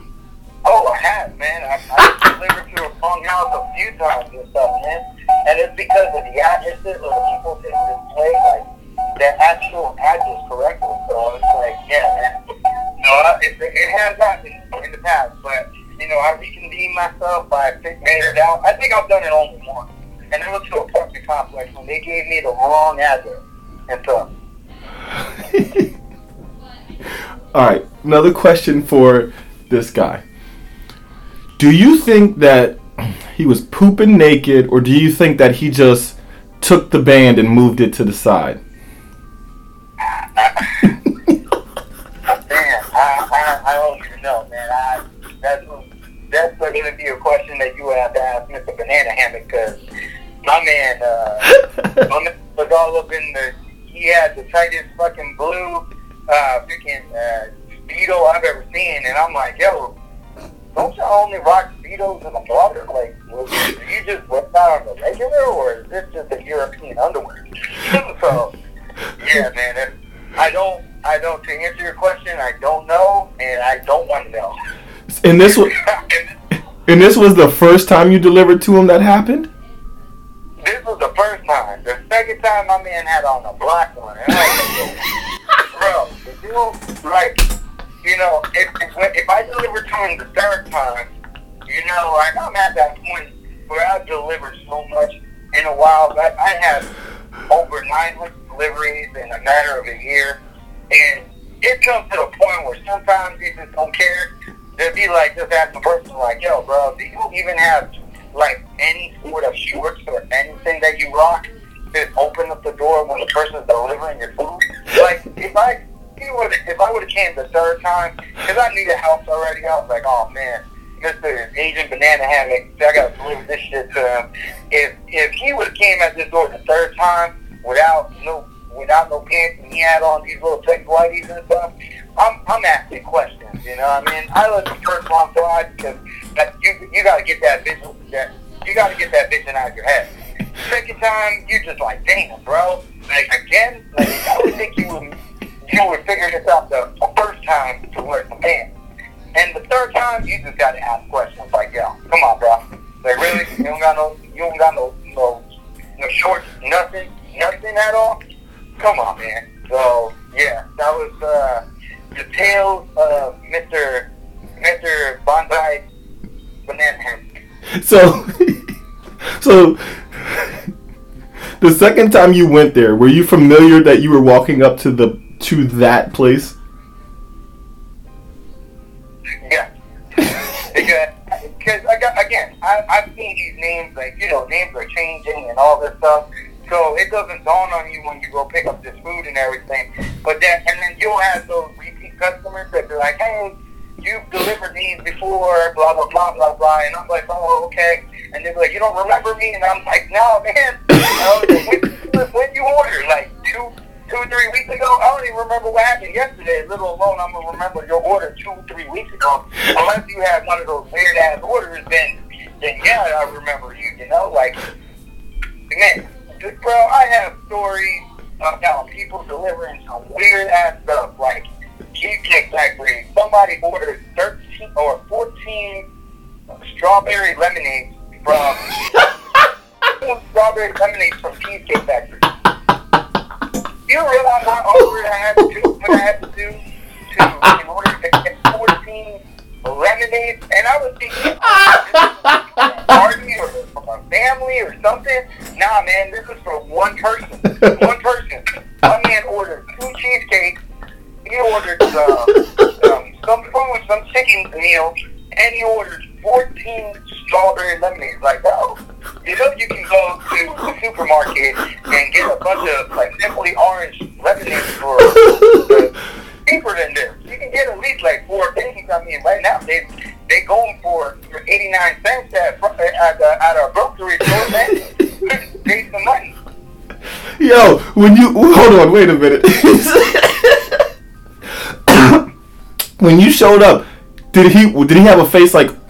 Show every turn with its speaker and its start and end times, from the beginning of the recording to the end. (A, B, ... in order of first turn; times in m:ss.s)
0:00.6-0:12.4 A
0:13.0-0:24.3 A
0:25.5-0:25.8 B
0:27.5-0:30.2 B
0:31.6-0:38.6 B
0:40.0-0:40.9 A
0:42.4-0:49.8 A
0:50.4-0:59.9 A
1:00.8-1:08.5 A
1:09.2-1:14.5 A
1:15.1-1:15.7 B
1:15.7-1:16.3 A
1:16.9-1:19.5 B
1:20.6-1:25.0 A
1:25.7-1:27.4 A
1:28.0-1:31.1 A
1:31.6-1:36.9 A
1:37.5-2:28.7 A
2:29.3-2:35.4 A
2:36.0-2:38.2 A
2:38.8-2:45.8 A
2:46.6-2:47.2 A
2:47.7-2:48.7 B
2:49.3-2:50.6 B
2:51.6-2:56.5 B
2:59.4-3:34.6 A
3:35.7-3:45.8 A
3:46.6-3:48.6 A
3:49.9-3:52.2 A
3:53.9-4:10.6 A
4:11.2-4:25.9 A
4:25.2-4:25.6 B
4:26.5-4:36.3 A
4:37.4-4:40.8 B
4:41.7-4:42.3 B
4:43.0-4:45.7 B